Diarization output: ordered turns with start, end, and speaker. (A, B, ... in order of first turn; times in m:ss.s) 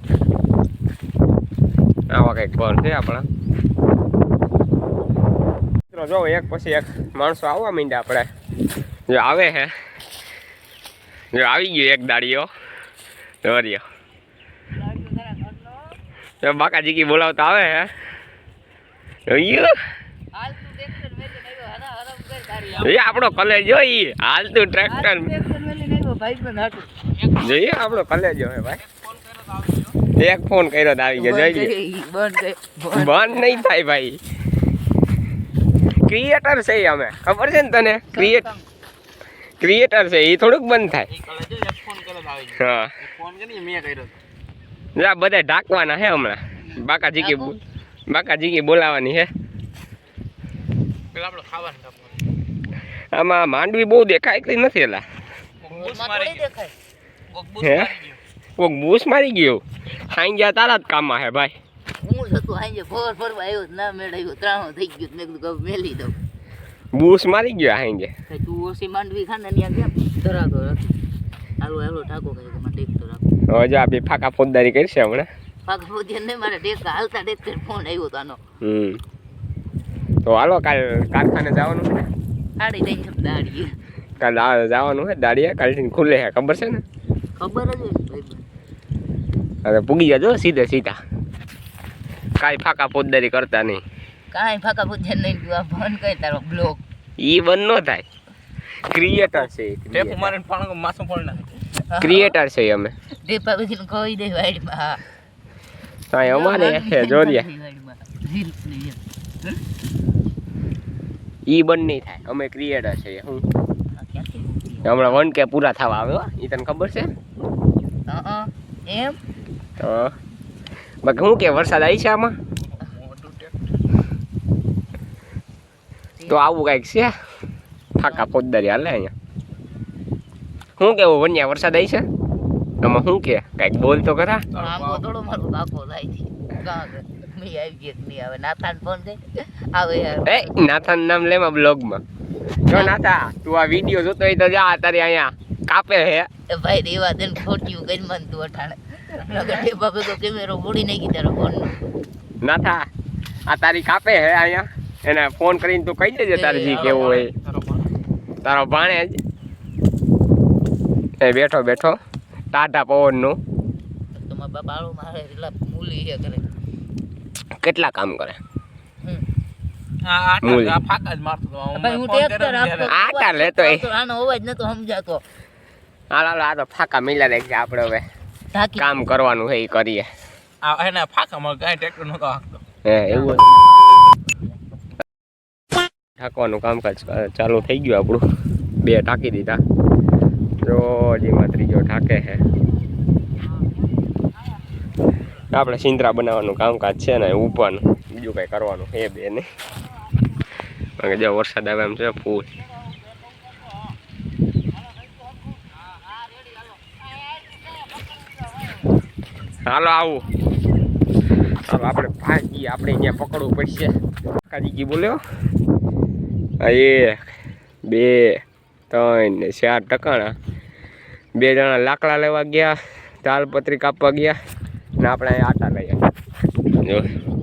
0:02.1-0:03.3 A
0:05.9-0:08.3 A
0:09.1-0:09.7 A
0:11.3-0:12.5 A
0:13.4-0:13.8 A
0:14.8-0:15.9 B
0:16.4-0:17.9 A
0:19.2-0:19.8 A
0:20.3-0:23.2 B
0:22.7-0:25.4 A
0:24.8-0:26.9 B
0:27.3-0:28.8 A
0:29.0-0:29.9 C
0:30.1-0:31.7 A
0:31.2-0:33.6 B
0:32.9-0:34.2 A
0:36.0-0:38.5 A
0:38.1-0:38.6 B
0:39.6-0:41.1 A
0:41.1-0:44.1 C
0:42.5-0:42.9 A
0:45.0-0:47.6 A
0:47.2-0:47.5 B
0:48.1-0:49.3 A
0:51.1-0:52.2 C
0:53.1-0:55.0 A
0:55.6-0:56.5 C
0:55.7-0:56.7 B
0:57.3-0:58.2 C
0:57.6-0:57.9 A
0:58.6-1:01.6 A
1:02.0-1:06.2 B
1:06.9-1:08.1 A
1:08.3-1:11.0 B
1:11.6-1:13.2 B
1:13.5-1:15.3 A
1:15.6-1:18.4 B
1:18.6-1:19.0 A
1:20.2-1:22.0 A
1:22.6-1:23.8 B
1:24.2-1:26.8 A
1:27.4-1:28.4 B
1:29.6-1:31.0 A
1:32.4-1:33.8 A
1:34.3-1:36.8 B
1:37.2-1:38.1 A
1:38.9-1:40.3 A
1:39.9-1:41.6 C
1:41.8-1:42.4 B
1:42.0-1:42.9 A
1:43.2-1:45.0 B
1:46.1-1:47.4 A
1:46.2-1:49.6 B
1:51.5-1:53.4 A
1:54.0-1:55.2 B
1:54.8-1:57.1 A
1:58.1-1:59.2 B
1:59.8-2:00.1 A
2:01.0-2:02.3 A
2:02.7-2:03.6 C
2:06.2-2:06.4 B
2:06.2-2:07.1 A
2:08.0-2:09.1 A
2:10.8-2:12.0 A
2:12.8-2:14.5 A
2:14.5-2:15.0 C
2:14.5-2:20.6 B
2:20.2-2:22.0 A
2:22.7-2:26.3 A
2:26.5-2:31.8 B
2:32.4-2:32.8 A
2:33.5-2:37.3 A
2:36.3-2:37.2 B
2:36.8-2:37.8 C
2:38.4-2:39.2 A
2:41.2-2:42.0 A
2:42.5-2:43.4 A
2:44.1-2:46.4 B
2:47.6-2:48.4 A
2:50.0-2:52.9 C
2:50.4-2:50.8 A
2:51.7-2:55.2 B
2:52.9-2:53.9 A
2:56.1-2:58.0 A
2:58.5-2:59.0 B
2:58.8-3:00.1 A
3:00.6-3:02.6 C
3:02.8-3:03.4 A
3:02.9-3:04.6 B
3:06.2-3:08.2 A
3:08.8-3:09.6 A
3:10.6-3:12.4 A
3:15.5-3:19.5 A
3:21.0-3:22.5 A
3:29.6-3:30.3 A
3:31.6-3:33.9 A
3:34.5-3:35.2 A
3:36.6-3:37.2 A
3:37.9-3:40.3 A
3:41.4-3:44.4 A
3:45.0-3:46.0 A
3:46.8-3:47.1 A